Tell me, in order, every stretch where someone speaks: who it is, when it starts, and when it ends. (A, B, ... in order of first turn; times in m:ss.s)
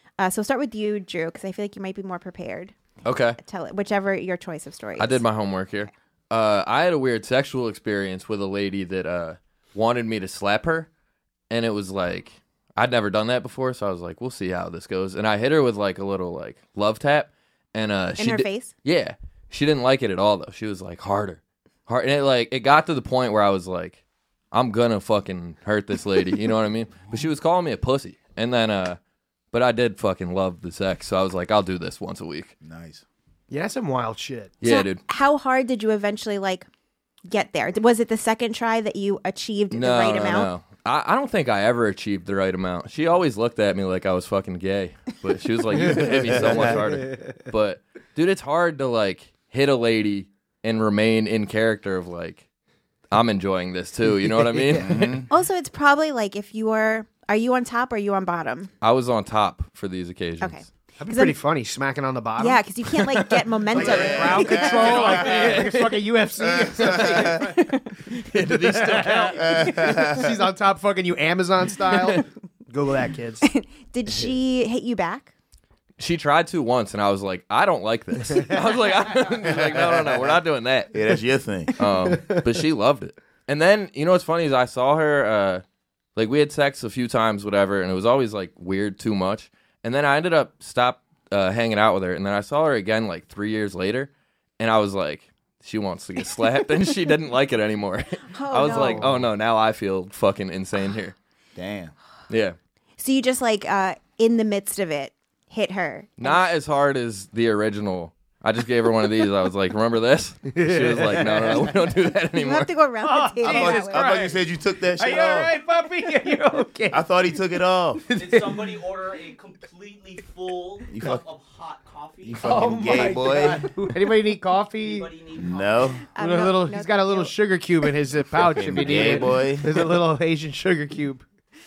0:00.2-0:02.8 A
0:03.0-0:03.4 B
0:03.4-0:05.2 A
0:05.0-0:10.9 B
0:11.5-0:24.0 B
0:18.2-0:18.7 A
0:24.5-0:29.0 B
0:29.5-0:32.5 B
0:32.6-0:33.0 C
0:33.5-0:34.6 D
0:34.6-0:35.0 B
0:34.6-0:36.6 A
0:37.3-0:40.5 A
0:39.7-0:52.4 B
0:45.7-0:47.3 D
0:45.8-0:46.8 C
0:53.1-0:55.1 B
0:54.3-0:55.1 D
0:54.8-0:55.3 C
0:55.3-0:58.7 A
0:58.8-1:00.6 B
1:00.4-1:01.4 A
1:01.0-1:02.6 D
1:02.4-1:05.5 A
1:03.1-1:07.7 D
1:03.7-1:05.6 C
1:04.9-1:06.0 B
1:06.4-1:07.5 C
1:07.4-1:08.0 A
1:08.2-1:09.6 B
1:08.6-1:13.4 D
1:09.4-1:10.3 C
1:13.4-1:15.3 A
1:14.1-1:14.3 C
1:16.0-1:20.9 B
1:18.2-1:18.7 D
1:19.5-1:20.4 C
1:20.9-1:21.7 C
1:21.8-1:25.6 B
1:22.1-1:22.4 D
1:26.2-1:41.2 B
1:38.3-1:39.1 A
1:38.7-1:39.2 D
1:41.6-1:41.9 C
1:42.3-1:42.6 B
1:43.0-1:46.4 A
1:46.2-1:52.7 B
1:50.5-1:51.9 D
1:52.4-1:54.1 A
1:53.0-1:57.1 D
1:53.4-1:55.5 C
1:56.9-1:58.0 C
1:58.0-1:58.8 D
1:58.1-2:03.6 E
2:00.9-2:01.2 C
2:02.2-2:03.7 C
2:02.4-2:05.1 D
2:04.8-2:06.0 E
2:05.4-2:06.0 C
2:06.2-2:07.3 A
2:06.2-2:11.2 D
2:08.4-2:09.2 B
2:08.6-2:09.7 C